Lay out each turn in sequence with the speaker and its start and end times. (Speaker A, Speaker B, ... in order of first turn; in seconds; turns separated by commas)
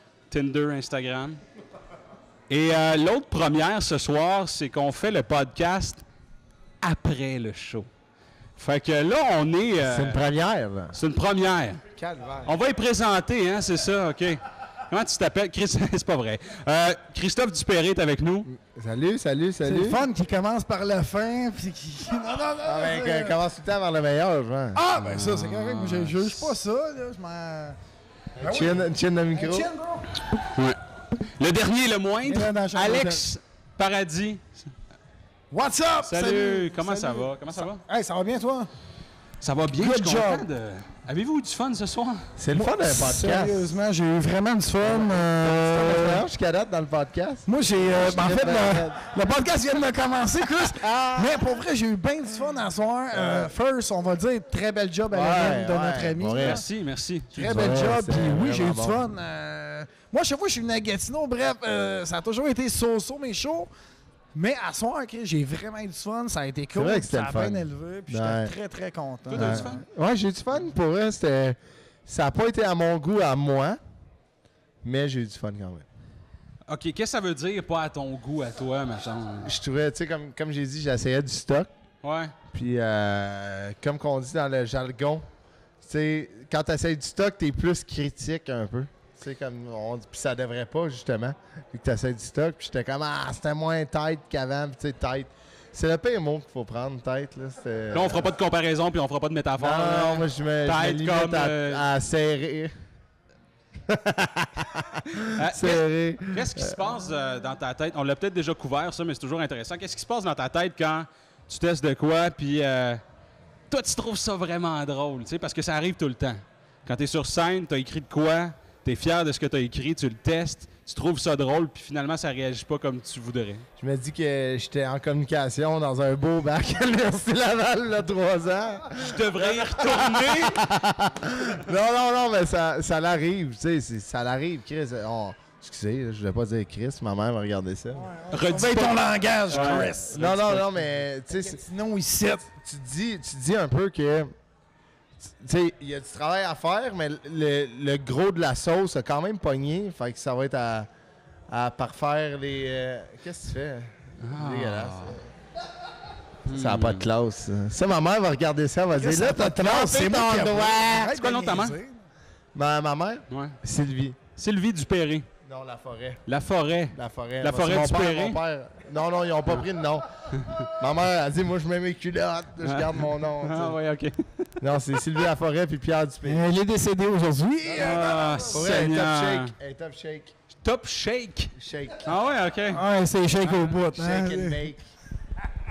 Speaker A: 0.3-1.4, Speaker A: 2.5-6.0, Speaker A: 6.8-7.9, Speaker A: 8.6-10.2, Speaker B: 9.8-11.0, Speaker A: 10.9-11.8, Speaker B: 11.9-12.5, Speaker A: 12.4-18.5, Speaker B: 18.5-20.0, Speaker C: 19.6-23.4, Speaker B: 22.6-24.8, Speaker C: 24.7-27.8, Speaker A: 25.0-26.6, Speaker B: 28.4-29.7, Speaker C: 28.4-30.1, Speaker A: 30.3-30.8, Speaker A: 31.4-34.7, Speaker C: 32.2-33.2, Speaker C: 35.5-38.7, Speaker A: 36.0-37.8, Speaker A: 39.4-42.2, Speaker C: 39.8-40.5, Speaker B: 42.4-43.8, Speaker C: 42.5-46.2, Speaker B: 44.8-49.0, Speaker C: 47.5-56.6, Speaker B: 50.5-51.5, Speaker B: 53.1-53.5, Speaker B: 55.1-56.6, Speaker A: 56.4-57.7, Speaker B: 57.3-59.1, Speaker C: 57.4-63.7, Speaker C: 64.3-69.7, Speaker B: 66.7-68.5, Speaker A: 69.3-69.8, Speaker B: 69.4-73.8, Speaker B: 74.8-75.9, Speaker A: 76.7-79.5, Speaker B: 79.4-81.7, Speaker A: 82.0-82.3, Speaker B: 82.5-85.2, Speaker B: 85.8-98.3, Speaker A: 97.9-101.9, Speaker B: 99.6-102.7, Speaker B: 103.9-106.8, Speaker A: 105.2-113.0, Speaker A: 113.7-123.7, Speaker B: 123.8-138.1, Speaker A: 129.0-130.6, Speaker C: 137.9-140.2, Speaker A: 138.3-140.8, Speaker B: 139.5-141.6, Speaker C: 141.3-142.5, Speaker B: 142.5-144.3, Speaker B: 145.2-150.9, Speaker B: 151.5-155.3, Speaker A: 154.2-155.2, Speaker A: 156.5-157.1, Speaker B: 156.5-161.2, Speaker C: 158.9-162.0, Speaker A: 161.1-161.8, Speaker B: 162.5-164.2, Speaker A: 163.3-163.6, Speaker A: 164.4-165.3, Speaker B: 165.4-166.2, Speaker A: 166.3-168.4, Speaker B: 166.9-173.8, Speaker A: 172.6-174.5, Speaker B: 174.6-176.4, Speaker C: 176.2-178.5, Speaker A: 177.8-179.5, Speaker B: 177.8-180.3, Speaker A: 180.6-181.5, Speaker B: 181.6-182.1, Speaker A: 182.0-182.8, Speaker C: 182.7-184.6, Speaker B: 183.4-184.9